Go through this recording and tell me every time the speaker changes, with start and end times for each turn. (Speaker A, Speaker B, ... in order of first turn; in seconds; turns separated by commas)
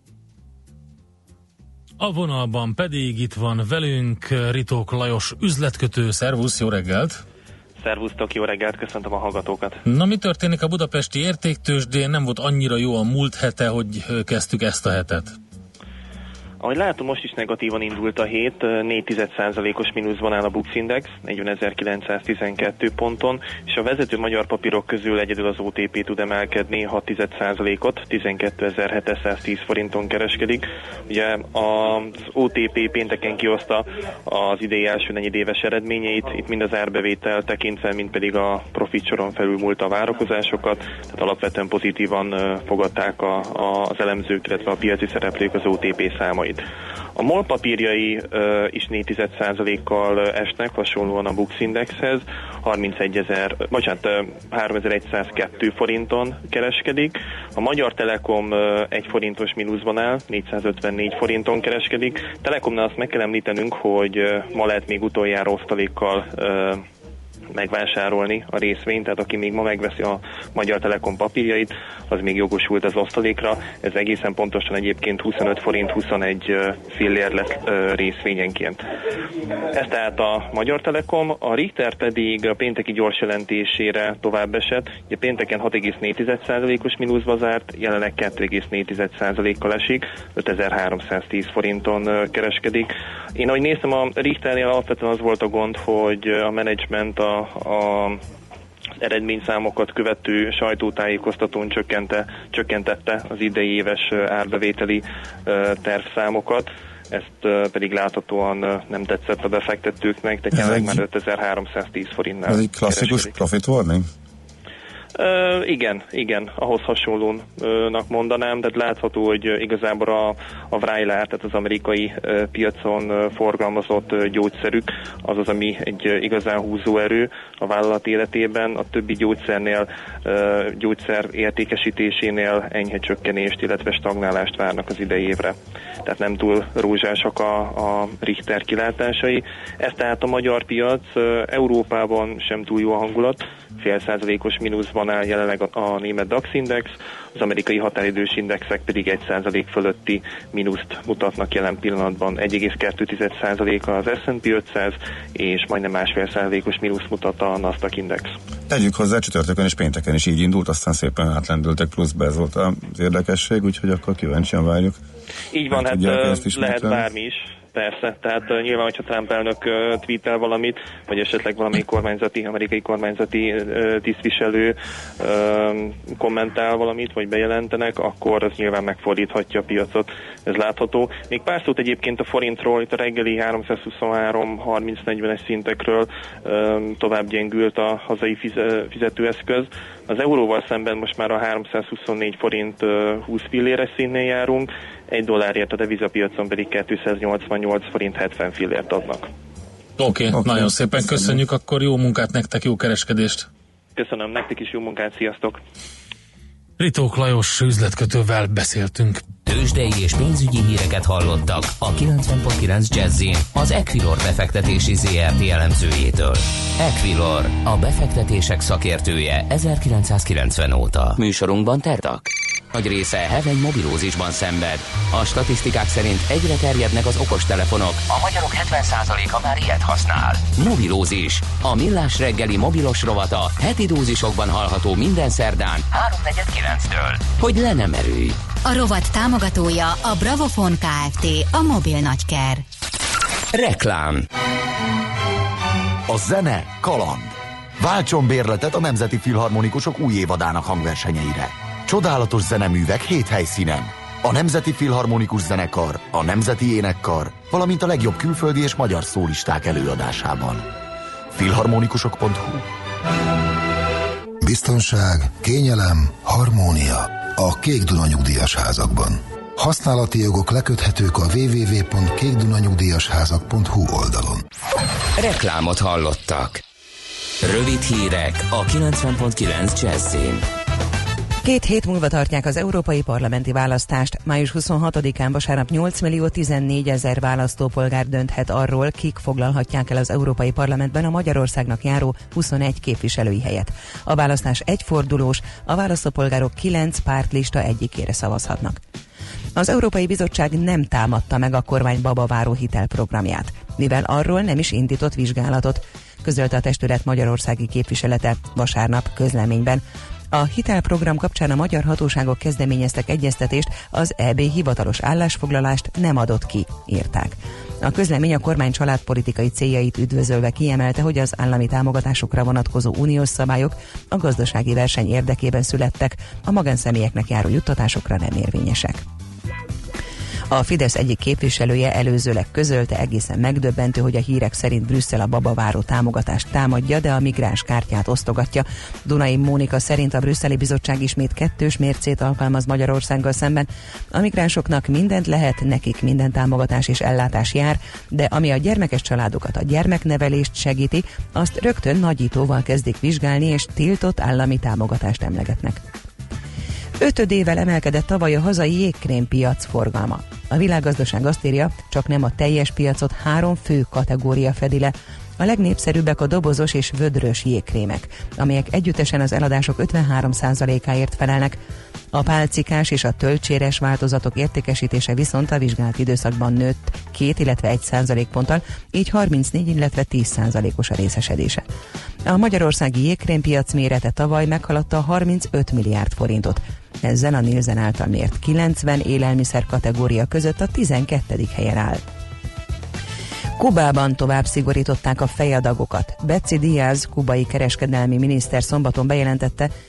Speaker A: 2.0-7.2, Speaker B: 7.8-9.8, Speaker A: 9.9-15.4, Speaker B: 16.6-46.6, Speaker B: 47.2-66.8, Speaker B: 67.5-78.8, Speaker B: 79.7-98.2, Speaker B: 99.0-113.4, Speaker C: 110.5-111.0, Speaker C: 112.5-114.1, Speaker B: 115.2-158.3, Speaker C: 158.7-165.0, Speaker B: 165.5-199.3, Speaker C: 165.7-167.1, Speaker A: 200.0-203.5, Speaker C: 200.3-201.4, Speaker B: 204.0-205.6, Speaker A: 206.8-209.2, Speaker D: 209.4-238.4, Speaker E: 238.7-242.6, Speaker D: 243.5-244.3, Speaker F: 246.1-260.7, Speaker F: 261.3-262.7, Speaker G: 264.4-274.4, Speaker D: 275.2-276.6, Speaker D: 277.4-280.4, Speaker H: 281.4-298.8, Speaker H: 299.6-329.0, Speaker H: 330.5-355.8, Speaker H: 357.0-371.6, Speaker H: 372.1-381.6, Speaker H: 382.3-392.0, Speaker H: 393.6-399.7